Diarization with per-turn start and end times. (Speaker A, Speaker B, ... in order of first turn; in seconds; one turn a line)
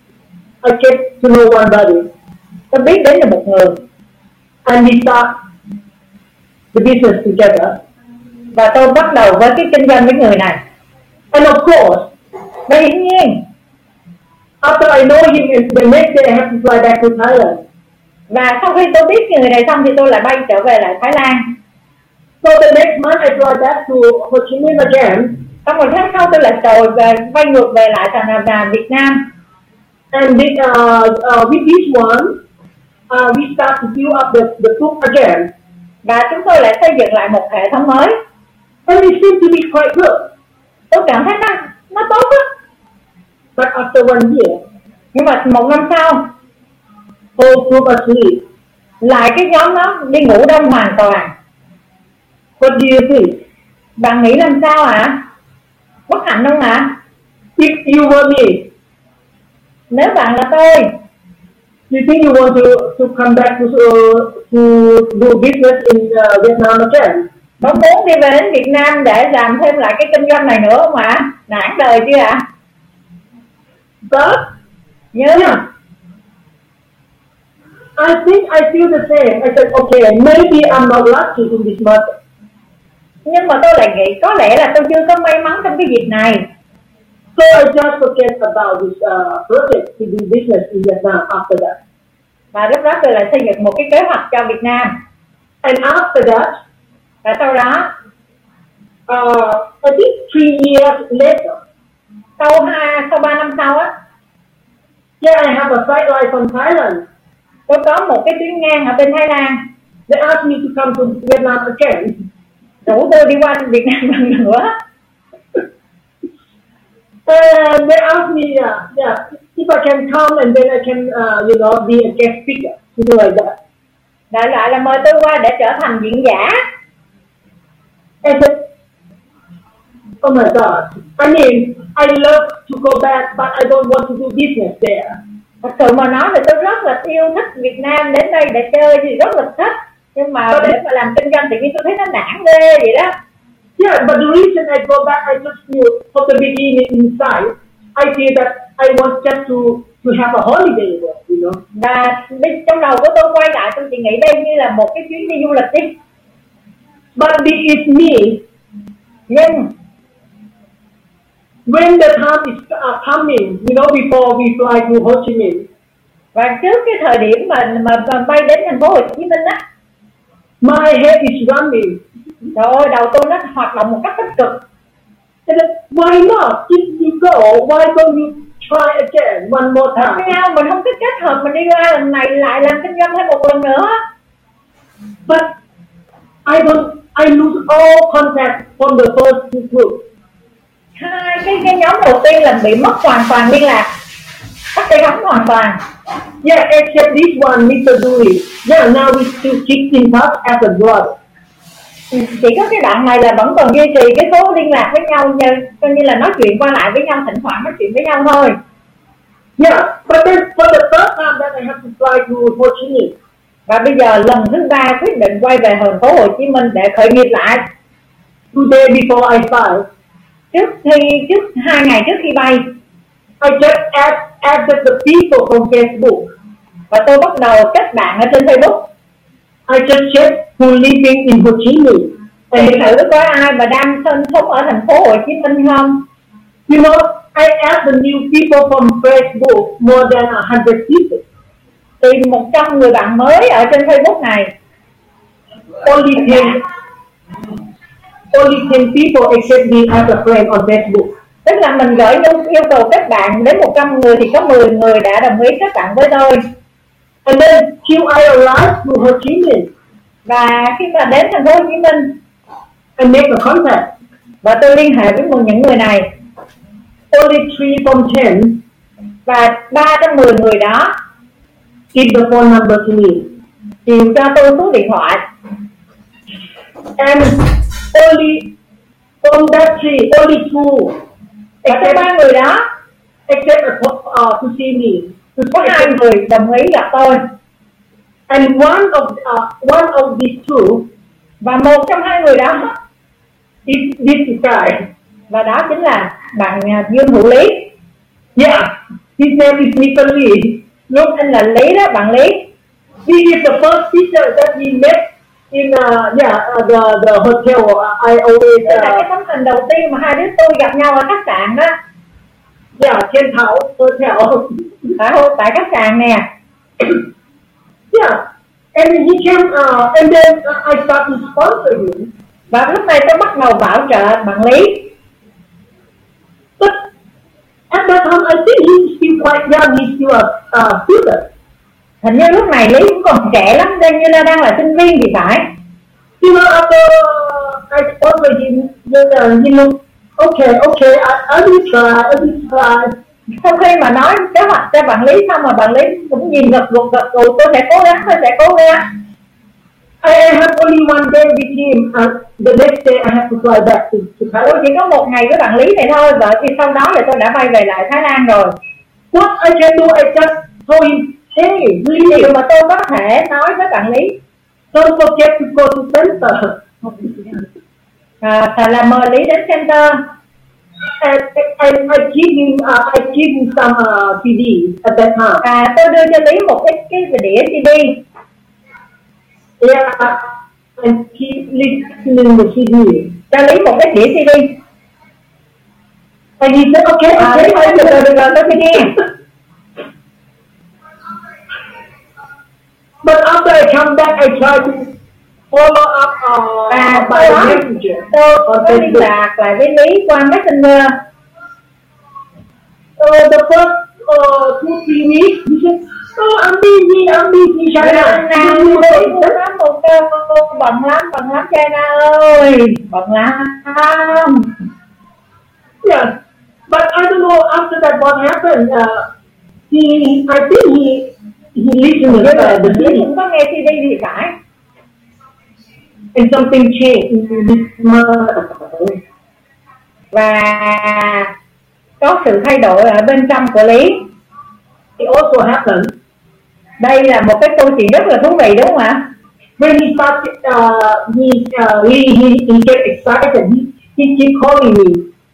Speaker A: 0.6-2.1
Speaker B: 2.7-3.8
Speaker A: 4.6-5.3
Speaker A: 6.7-7.8
Speaker B: 8.5-10.6
Speaker A: 11.3-12.1
Speaker B: 12.7-13.4
Speaker A: 14.6-17.6
Speaker B: 18.3-21.4
Speaker A: 22.4-25.4
Speaker B: 25.6-29.2
Speaker A: 30.1-32.4
Speaker A: 33.1-35.5
Speaker B: 36.0-38.1
Speaker A: 38.9-40.3
Speaker B: 40.9-42.4
Speaker A: 43.5-44.6
Speaker B: 45.1-46.2
Speaker A: 47.4-48.4
Speaker B: 49.0-51.3
Speaker A: 52.6-53.4
Speaker B: 54.0-55.2
Speaker B: 56.1-56.9
Speaker A: 57.6-58.7
Speaker B: 59.9-60.9
Speaker A: 61.9-67.2
Speaker B: 67.6-72.4
Speaker A: 74.0-74.5
Speaker B: 75.1-75.6
Speaker A: 75.3-75.6
Speaker A: 78.0-82.1
Speaker B: 83.2-86.4
Speaker A: 87.3-91.8
Speaker B: 92.5-94.9
Speaker A: 95.6-96.5
Speaker B: 97.2-97.9
Speaker A: 99.1-101.6
Speaker B: 102.4-103.9
Speaker A: 105.2-107.0
Speaker B: 107.7-109.6
Speaker A: 110.1-112.2
Speaker B: 112.8-114.7
Speaker A: 117.3-123.5
Speaker B: 124.3-126.6
Speaker A: 128.2-128.6
Speaker A: 130.2-135.2
Speaker B: 135.6-143.1
Speaker A: 143.8-151.6
Speaker B: 151.7-156.0
Speaker A: 157.2-158.4
Speaker B: 159.3-159.7
Speaker A: 161.7-165.7
Speaker B: 166.3-169.6
Speaker A: 170.6-172.0
Speaker B: 172.5-174.6
Speaker A: 175.5-180.3
Speaker B: 180.0-183.9
Speaker A: 186.4-190.0
Speaker B: 191.0-193.9
Speaker B: 194.7-195.8
Speaker A: 196.4-201.2
Speaker B: 202.1-208.5
Speaker A: 209.6-213.1
Speaker B: 213.7-217.6
Speaker A: 218.5-219.8
Speaker B: 220.5-222.6
Speaker A: 223.4-226.3
Speaker B: 226.9-228.9
Speaker A: 229.7-232.9
Speaker B: 232.5-236.1
Speaker A: 236.7-241.2
Speaker B: 242.0-244.5
Speaker A: 245.8-246.6
Speaker A: 248.3-251.1
Speaker B: 251.4-256.4
Speaker A: 257.2-259.7
Speaker B: 260.2-262.2
Speaker A: 263.0-263.9
Speaker B: 264.4-266.1
Speaker A: 267.1-268.6
Speaker B: 269.2-270.9
Speaker A: 271.9-273.3
Speaker B: 273.9-275.2
Speaker A: 277.0-278.5
Speaker A: 279.2-281.0
Speaker A: 281.6-282.1
Speaker B: 281.6-282.6
Speaker A: 283.3-286.0
Speaker B: 285.5-287.2
Speaker A: 288.3-290.9
Speaker B: 291.4-292.7
Speaker A: 293.6-294.9
Speaker B: 295.3-297.7
Speaker A: 298.4-300.6
Speaker B: 300.9-302.5
Speaker A: 303.1-309.1
Speaker B: 308.6-311.7
Speaker A: 312.8-314.9
Speaker B: 315.0-316.2
Speaker A: 317.9-318.2
Speaker A: 318.7-322.1
Speaker B: 322.5-324.9
Speaker A: 327.7-331.3
Speaker B: 332.0-335.4
Speaker A: 336.2-342.9
Speaker B: 343.3-348.9
Speaker A: 350.0-354.6
Speaker B: 354.4-358.5
Speaker A: 359.1-362.3
Speaker B: 362.0-364.2
Speaker A: 364.7-367.1
Speaker B: 368.2-370.0
Speaker A: 371.0-375.4
Speaker B: 375.4-378.0
Speaker A: 379.6-383.1
Speaker B: 383.3-384.5
Speaker A: 386.4-388.9
Speaker B: 387.1-388.9
Speaker A: 393.0-394.9
Speaker A: 395.5-399.1
Speaker B: 396.7-400.9
Speaker A: 403.0-409.4
Speaker B: 407.8-414.5
Speaker A: 415.8-416.1
Speaker A: 416.7-419.1
Speaker A: 419.7-423.1
Speaker B: 422.1-424.4
Speaker A: 426.1-429.0
Speaker B: 430.1-431.3
Speaker B: 432.0-434.1
Speaker A: 435.0-435.9
Speaker B: 436.8-439.0
Speaker A: 439.6-445.0